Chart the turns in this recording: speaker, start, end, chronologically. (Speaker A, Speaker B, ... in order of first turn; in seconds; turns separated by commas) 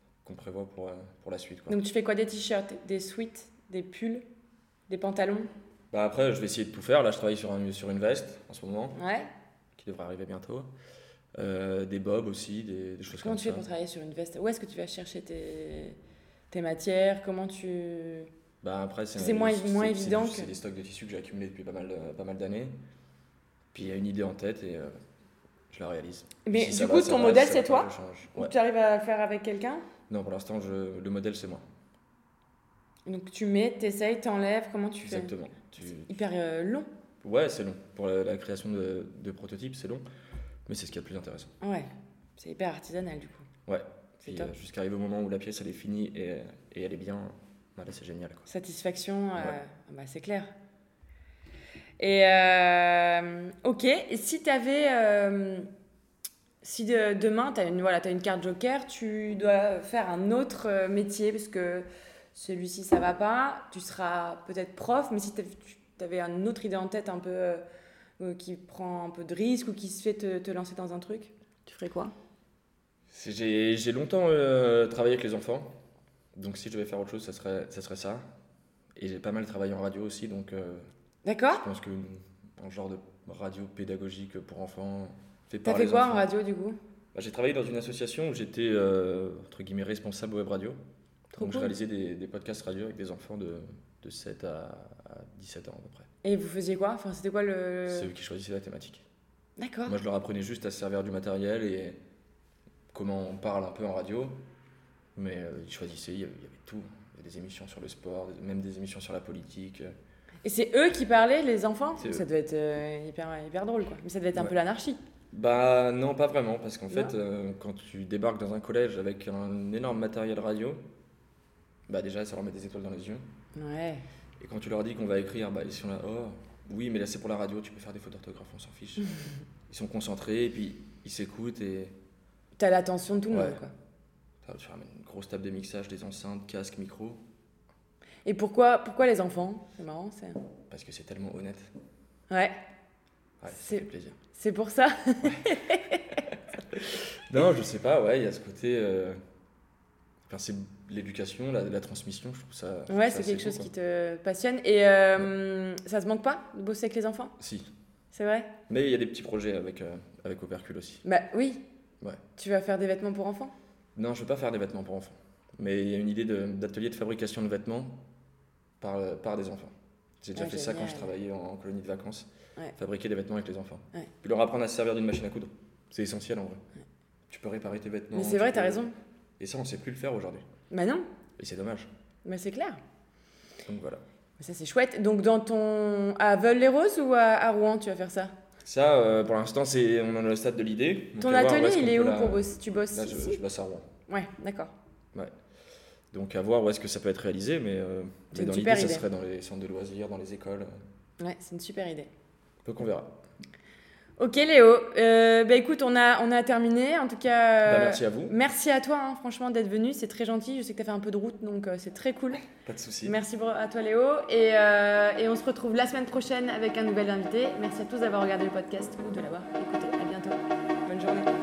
Speaker A: 0.2-1.8, Speaker B: 1.7-4.2, Speaker B: 4.9-5.5, Speaker A: 5.9-9.0, Speaker B: 8.9-9.3, Speaker A: 9.8-10.7, Speaker A: 11.4-13.7, Speaker B: 13.1-16.0, Speaker B: 16.5-18.3, Speaker A: 18.6-22.8, Speaker B: 19.2-20.5, Speaker A: 23.7-24.9, Speaker A: 25.7-28.5, Speaker B: 26.4-29.8, Speaker A: 30.1-31.6, Speaker B: 33.1-35.3, Speaker A: 35.0-36.2, Speaker B: 35.9-36.9, Speaker A: 37.2-40.0, Speaker A: 40.7-41.5, Speaker B: 41.6-43.5, Speaker A: 43.7-48.5, Speaker B: 44.2-44.5, Speaker B: 48.5-50.5, Speaker B: 52.0-55.7, Speaker B: 56.6-67.6, Speaker B: 68.2-72.1, Speaker A: 73.1-75.7, Speaker A: 76.3-78.2, Speaker A: 79.0-80.8, Speaker B: 81.2-81.6, Speaker A: 81.5-86.3, Speaker B: 85.6-86.8, Speaker A: 87.1-90.8, Speaker B: 91.4-91.8, Speaker A: 91.4-96.1, Speaker B: 96.2-98.1, Speaker A: 97.9-99.0, Speaker B: 99.6-100.0, Speaker A: 99.9-102.0, Speaker A: 102.9-104.4, Speaker A: 105.2-109.9, Speaker B: 110.4-115.0, Speaker A: 112.0-112.2, Speaker A: 115.3-120.8, Speaker A: 121.9-123.2, Speaker B: 123.5-124.0, Speaker A: 124.4-129.1, Speaker A: 129.7-132.0, Speaker B: 132.6-133.7, Speaker A: 133.3-133.6, Speaker A: 134.4-137.2, Speaker B: 138.2-140.4, Speaker A: 140.7-141.7, Speaker B: 142.3-142.6, Speaker A: 143.4-144.2, Speaker B: 143.5-146.2, Speaker A: 145.2-145.6, Speaker A: 146.7-149.2, Speaker A: 150.3-153.7, Speaker B: 152.9-157.3, Speaker A: 157.4-157.7, Speaker B: 158.1-158.5, Speaker A: 158.7-161.0, Speaker B: 161.0-161.6, Speaker B: 162.4-163.5, Speaker A: 164.0-168.0, Speaker A: 168.8-176.6, Speaker B: 170.4-171.1, Speaker A: 177.3-178.8, Speaker B: 178.1-178.9, Speaker A: 179.4-180.4, Speaker B: 180.7-181.1, Speaker A: 181.4-181.9, Speaker B: 182.2-182.8, Speaker A: 183.7-184.0, Speaker B: 184.4-188.3, Speaker A: 188.6-193.9, Speaker B: 191.2-193.4, Speaker B: 194.1-194.7, Speaker A: 196.1-200.7, Speaker B: 198.3-199.0, Speaker B: 201.2-202.1, Speaker A: 202.7-203.2, Speaker B: 204.2-212.5, Speaker A: 207.6-208.3, Speaker A: 212.7-213.2, Speaker B: 213.1-221.3